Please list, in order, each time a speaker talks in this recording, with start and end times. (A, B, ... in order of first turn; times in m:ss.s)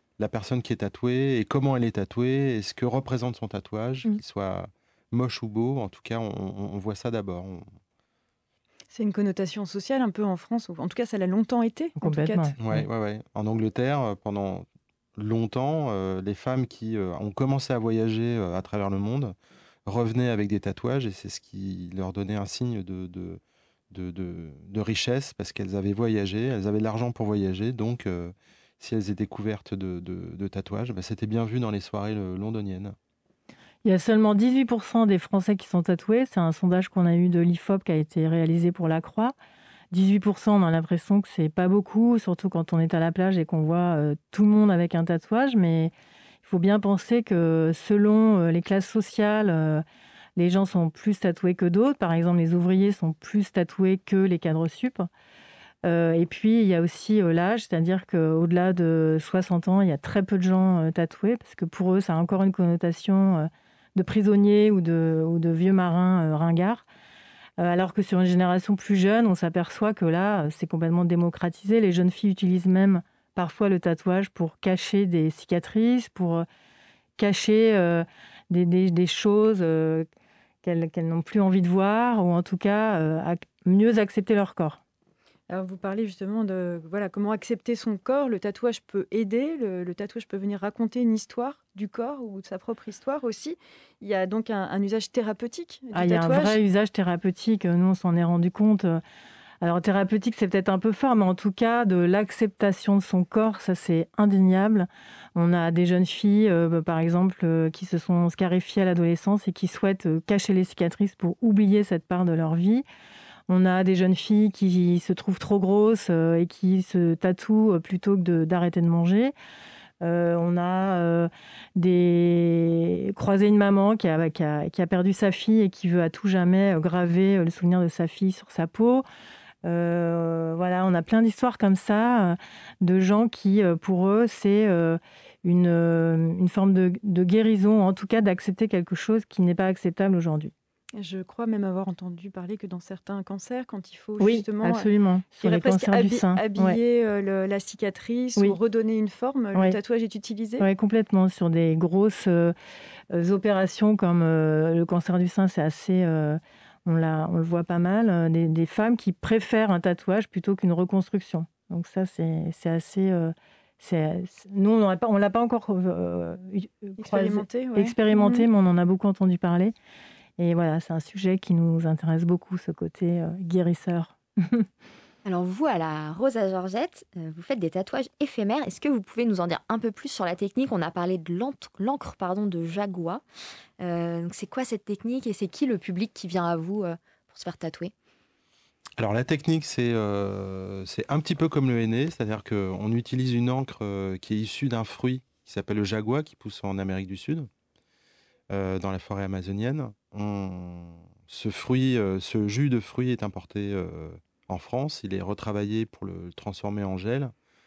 0:00.2-0:07.6 A
0:08.9-0:12.5 B
0:12.0-0:12.8 C
0:12.6-0:19.4 A
0:19.9-0:23.4 A
0:23.9-0:33.0 A
0:33.8-0:39.3 C
0:39.9-0:49.8 C
0:50.4-0:55.1 C
0:55.8-1:06.8 C
1:07.6-1:16.4 C
1:17.2-1:20.0 C
1:20.6-1:24.8 C
1:25.5-1:36.6 B
1:35.9-1:39.0 C
1:39.6-1:52.8 C
1:53.5-1:59.3 C
2:00.0-2:09.0 C
2:09.6-2:20.5 C
2:20.9-2:24.9 B
2:24.2-2:26.8 C
2:25.4-2:30.7 B
2:30.6-2:32.5 C
2:33.1-2:49.7 C
2:47.0-2:48.5 B
2:50.4-2:54.6 C
2:55.2-3:03.2 D
3:03.8-3:07.9 D
3:09.0-3:17.5 A
3:18.5-3:27.3 A